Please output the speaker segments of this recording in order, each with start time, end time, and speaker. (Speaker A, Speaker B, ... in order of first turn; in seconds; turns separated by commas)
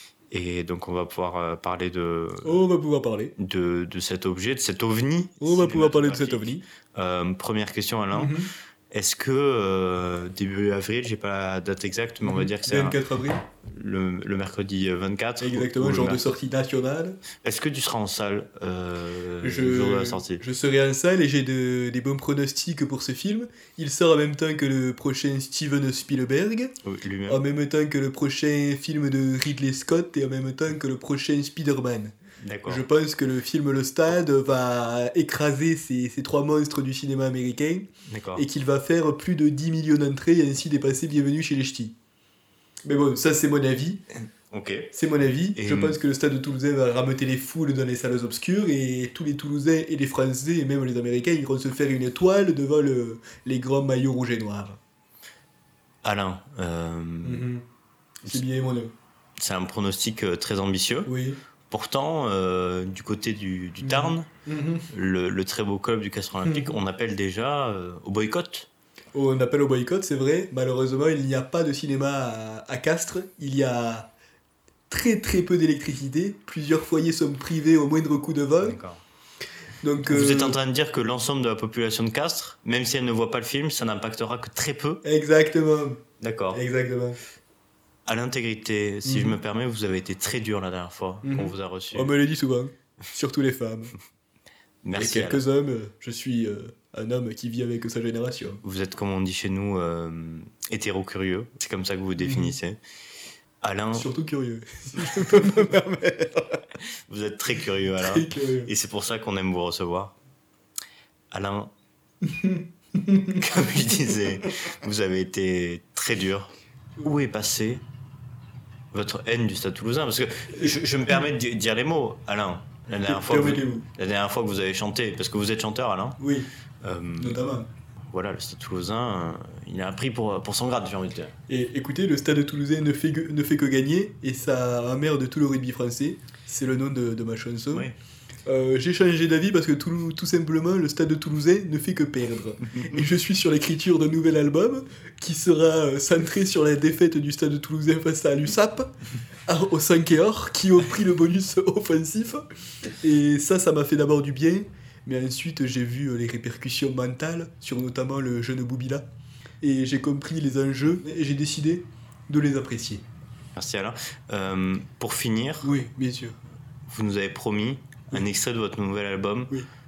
Speaker A: 0.3-2.6, Speaker B: 2.4-3.3, Speaker A: 3.4-8.4, Speaker B: 5.4-6.6, Speaker B: 8.1-8.5, Speaker A: 8.9-13.0, Speaker B: 12.2-13.4, Speaker A: 13.6-16.2, Speaker B: 15.4-17.2, Speaker A: 17.4-20.4, Speaker B: 19.4-26.7, Speaker A: 26.8-27.4, Speaker B: 27.3-32.1, Speaker A: 32.4-32.9, Speaker B: 32.6-41.9, Speaker A: 38.0-38.5, Speaker B: 42.8-44.0, Speaker A: 44.5-44.9, Speaker B: 44.9-54.8, Speaker A: 45.5-46.0, Speaker A: 56.0-57.5, Speaker B: 57.2-57.6, Speaker B: 58.2-58.9, Speaker A: 59.4-61.1, Speaker B: 61.0-61.4, Speaker A: 61.7-64.3, Speaker B: 63.8-64.9, Speaker A: 64.9-68.7, Speaker B: 66.4-66.8, Speaker B: 69.1-74.1, Speaker B: 74.9-78.8, Speaker A: 78.6-79.0, Speaker B: 79.8-80.6, Speaker A: 80.0-85.0, Speaker B: 85.0-86.0, Speaker A: 86.2-86.6, Speaker B: 86.5-87.2, Speaker A: 88.0-92.1, Speaker B: 89.0-89.4, Speaker B: 91.2-93.9, Speaker A: 94.8-95.4, Speaker B: 94.9-98.6, Speaker A: 98.6-102.8, Speaker B: 102.2-102.5, Speaker A: 103.6-104.1, Speaker B: 103.9-106.6, Speaker A: 107.1-110.1, Speaker B: 108.0-108.7, Speaker A: 111.3-111.7, Speaker B: 112.2-113.4, Speaker A: 113.3-117.8, Speaker A: 118.9-126.2, Speaker B: 123.0-123.8, Speaker B: 126.2-126.5, Speaker A: 126.8-127.5, Speaker B: 127.2-127.7, Speaker A: 128.1-131.3, Speaker B: 131.5-137.9, Speaker B: 138.4-148.9, Speaker B: 149.4-159.1, Speaker B: 159.6-163.0, Speaker A: 163.6-165.7, Speaker B: 165.6-166.4, Speaker A: 166.9-169.5